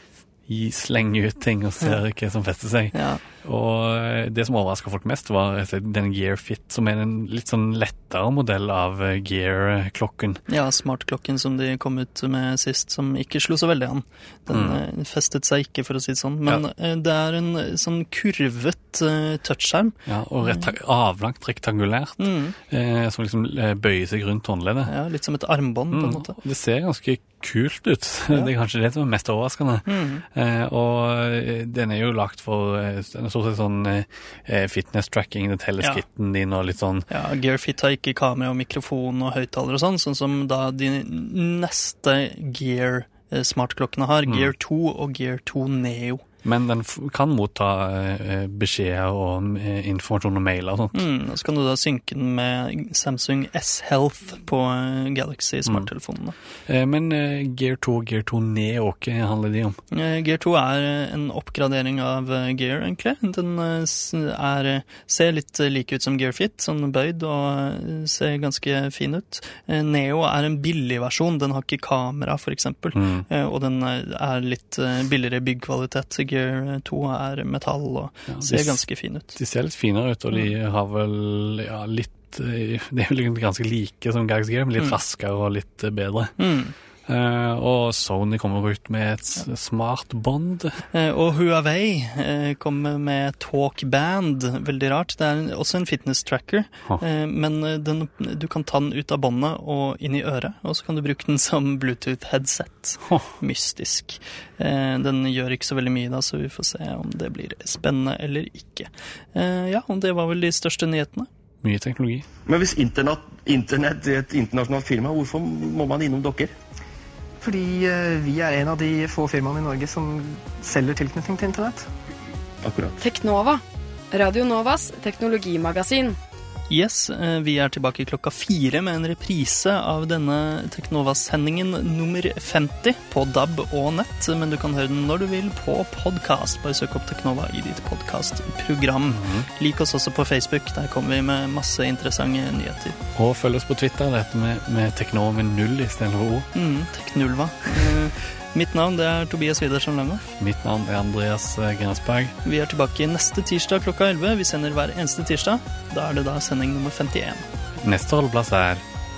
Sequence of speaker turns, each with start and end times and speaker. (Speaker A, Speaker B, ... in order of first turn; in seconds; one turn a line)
Speaker A: 0.5-10.4
Speaker B: 2.9-3.2
Speaker B: 10.5-20.7
Speaker A: 14.5-14.8
Speaker A: 20.1-24.9
Speaker B: 22.2-22.6
Speaker B: 24.9-26.4
Speaker A: 25.9-37.1
Speaker B: 29.9-30.2
Speaker B: 37.1-46.2
Speaker A: 46.4-51.1
Speaker B: 50.9-56.4
Speaker A: 56.7-59.8
Speaker B: 59.9-79.4
Speaker A: 72.9-73.2
Speaker A: 78.3-86.3
Speaker B: 86.4-86.7
Speaker A: 87.1-90.8
Speaker B: 90.9-111.3
Speaker A: 111.6-112.3
Speaker C: 112.5-116.5
Speaker D: 117.4-121.9
Speaker C: 122.6-123.0
Speaker E: 123.0-126.2
Speaker B: 126.7-143.0
Speaker A: 139.1-139.5
Speaker A: 143.2-146.5
Speaker B: 146.5-150.3
Speaker A: 150.4-152.3
Speaker B: 152.4-157.4
Speaker A: 157.8-158.8